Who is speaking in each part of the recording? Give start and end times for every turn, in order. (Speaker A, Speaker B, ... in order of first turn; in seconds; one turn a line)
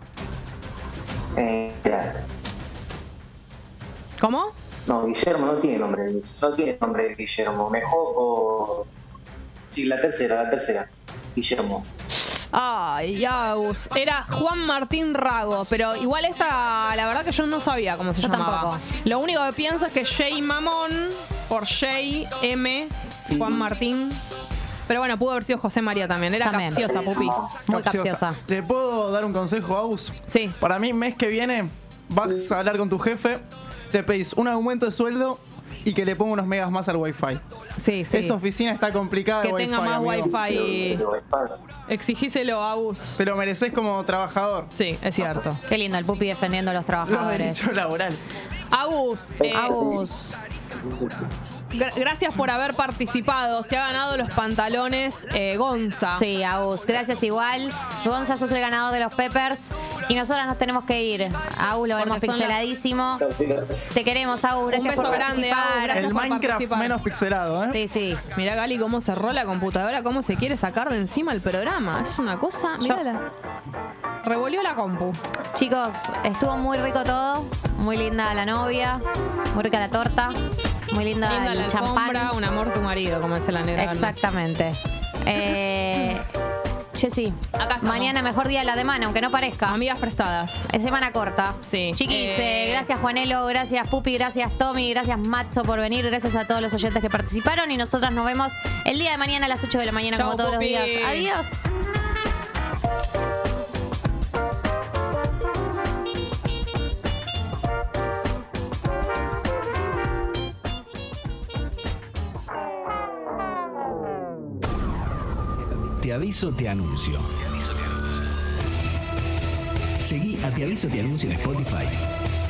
Speaker A: 1.4-2.2
Speaker B: 4.2-4.5
Speaker A: 4.8-8.9
Speaker A: 9.7-11.8
Speaker B: 12.4-24.2
Speaker C: 18.2-18.8
Speaker B: 24.9-27.4
Speaker C: 26.4-26.9
Speaker A: 26.7-27.6
Speaker C: 27.7-28.4
Speaker D: 27.7-37.4
Speaker B: 30.3-30.6
Speaker B: 37.8-38.4
Speaker D: 38.1-40.4
Speaker B: 39.4-41.0
Speaker A: 40.3-41.6
Speaker B: 41.9-43.2
Speaker D: 43.2-44.7
Speaker B: 44.7-45.6
Speaker C: 45.7-47.7
Speaker D: 47.0-48.2
Speaker B: 48.7-49.8
Speaker A: 49.4-50.0
Speaker C: 49.5-50.4
Speaker A: 50.8-51.1
Speaker B: 51.7-56.2
Speaker C: 56.1-63.2
Speaker B: 62.0-62.6
Speaker A: 63.2-63.8
Speaker C: 63.9-66.1
Speaker B: 64.7-67.0
Speaker D: 65.9-67.8
Speaker C: 67.7-68.2
Speaker B: 68.3-73.2
Speaker B: 74.2-75.2
Speaker C: 75.5-80.4
Speaker C: 80.9-82.3
Speaker B: 81.2-84.2
Speaker C: 83.8-86.3
Speaker C: 87.0-89.8
Speaker B: 87.6-88.2
Speaker B: 89.7-90.7
Speaker C: 90.7-101.5
Speaker B: 91.6-92.9
Speaker B: 100.1-101.3
Speaker E: 115.8-117.3
Speaker E: 120.0-122.0